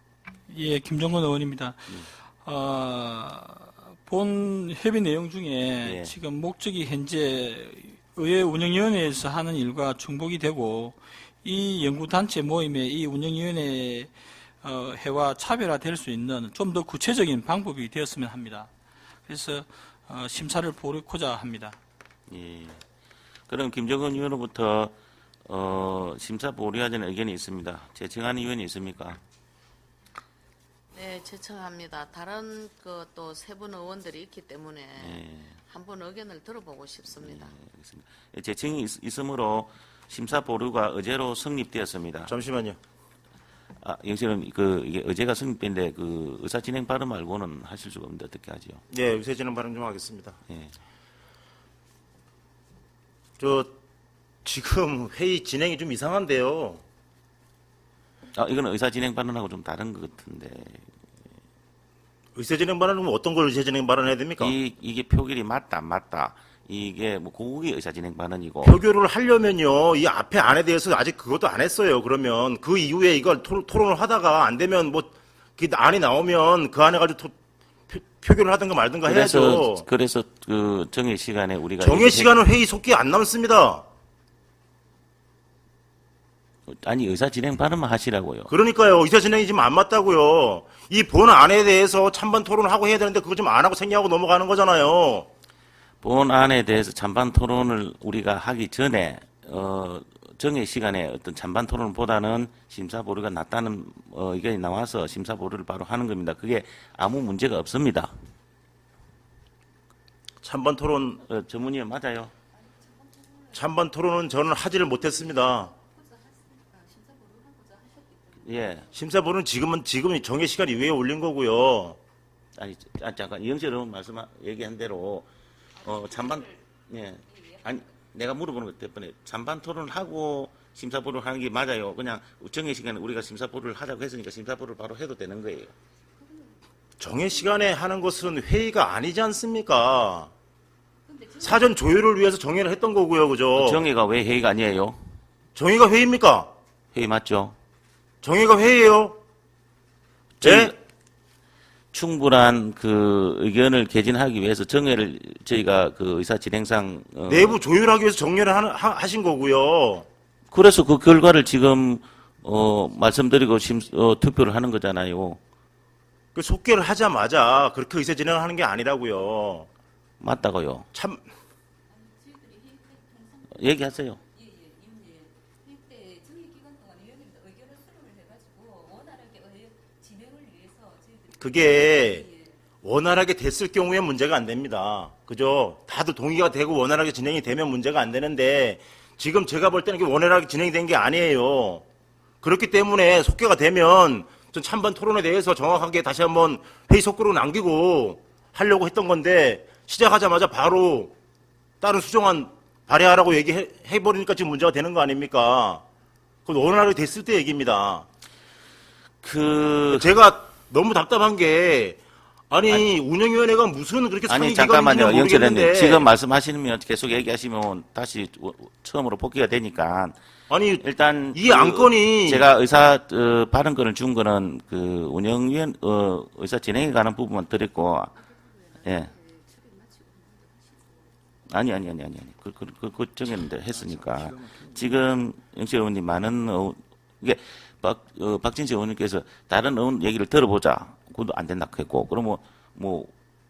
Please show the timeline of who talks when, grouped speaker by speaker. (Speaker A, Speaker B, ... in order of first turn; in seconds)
Speaker A: 0.5-18.7, 19.3-21.8
Speaker B: 5.8-6.2, 22.3-22.8, 23.5-24.9, 25.5-29.2, 35.0-35.6, 37.1-42.3, 43.8-48.8, 50.5-50.7, 58.3-60.9, 64.4-68.8, 79.0-82.4, 86.7-88.5, 96.0-108.1, 111.2-112.3, 118.4-118.9, 122.6-125.3, 125.8-135.7, 143.6-145.0, 146.9-147.6, 150.4-150.8, 151.9-157.6, 160.5-165.4, 170.2-170.9, 173.5-174.2, 209.2-210.1, 214.3-220.2, 220.8-228.1, 228.8-229.1, 231.5-243.1
Speaker C: 30.9-37.5
Speaker D: 42.2-42.8, 48.9-50.4, 53.4-53.8, 54.5-56.8, 62.4-64.6, 68.6-77.3, 77.9-79.9, 81.8-83.8, 88.5-95.3, 110.4-111.2, 113.5-115.8, 118.9-122.0, 137.0-140.3, 141.4-143.9, 145.6-146.5, 148.2-149.2, 150.4-150.7, 157.3-160.1, 166.3-169.7, 170.9-171.2, 181.4-182.3, 182.8-191.8, 192.4-201.1, 201.8-205.8, 206.5-208.1, 209.9-212.0, 212.5-216.1, 220.5-222.5, 233.7-235.0
Speaker E: 112.7-113.6, 115.7-118.7, 125.9-126.5, 136.3-136.6, 141.1-141.7, 171.9-182.6, 228.2-231.2